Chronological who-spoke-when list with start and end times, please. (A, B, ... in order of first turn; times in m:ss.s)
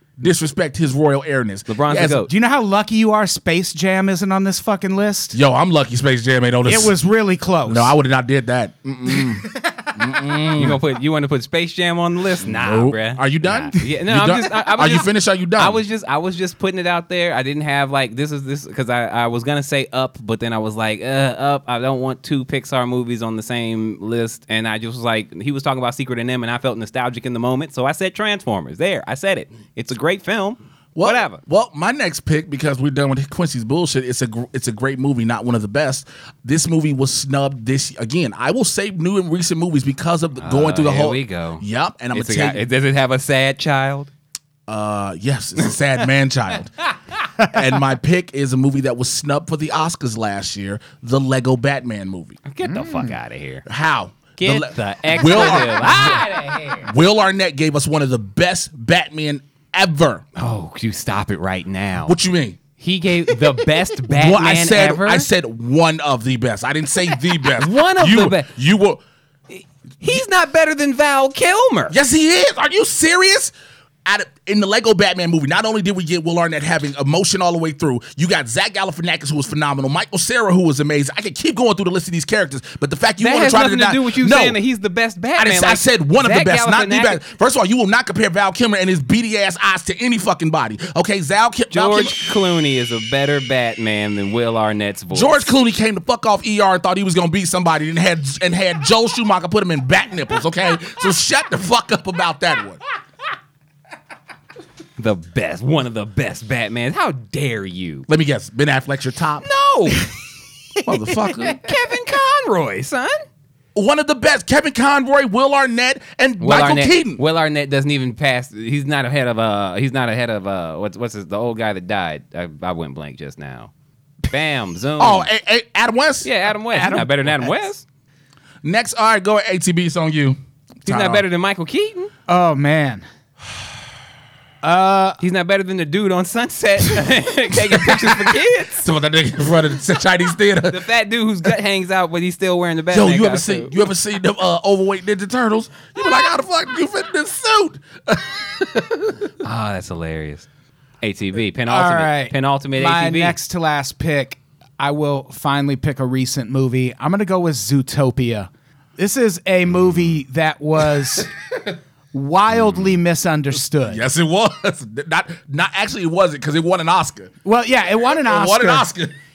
0:00.2-0:02.3 A
0:01.7-0:02.3 B
0:02.2-0:05.4 C
0:05.3-0:07.0 A
0:06.6-0:07.9 C
0:07.7-0:10.8 A
0:10.5-0:31.4 B
0:12.4-0:15.8 A
0:31.0-0:42.6 A
0:40.4-0:44.1 B
0:44.7-0:46.8 A
0:47.4-0:52.4 A
0:52.5-0:53.6 B
0:52.7-0:53.1 C
0:53.7-0:56.3 A
0:54.4-0:56.9 B
0:56.8-1:00.2 A
1:00.4-1:02.1 B
1:02.1-1:02.6 A
1:02.8-1:05.3 B
1:04.1-1:09.0 A
1:07.6-1:08.5 B
1:09.5-1:12.0 B
1:11.9-1:13.5 A
1:14.1-1:24.6 A
1:23.2-1:27.2 B
1:25.4-1:32.3 A
1:31.7-1:35.5 B
1:35.1-1:42.8 A
1:45.0-1:48.1 B
1:48.1-1:49.5 A
1:49.4-1:50.1 B
1:50.8-1:51.6 A
1:50.9-1:51.2 C
1:51.4-1:53.2 B
1:53.8-1:57.2 A
1:56.4-2:03.7 B
2:04.3-2:05.3 B
2:05.0-2:06.3 A
2:06.2-2:07.8 B
2:06.7-2:07.6 C
2:08.6-2:11.2 A
2:10.9-2:12.1 B
2:12.3-2:13.0 C
2:14.6-2:15.2 C
2:15.2-2:18.9 B
2:17.7-2:20.8 A
2:20.7-2:23.7 B
2:22.9-2:29.3 A
2:29.4-2:30.5 B
2:31.0-2:33.4 B
2:31.7-2:41.3 C
2:42.1-2:44.0 C
2:43.9-2:47.3 A
2:47.4-2:48.9 C
2:48.0-2:49.1 A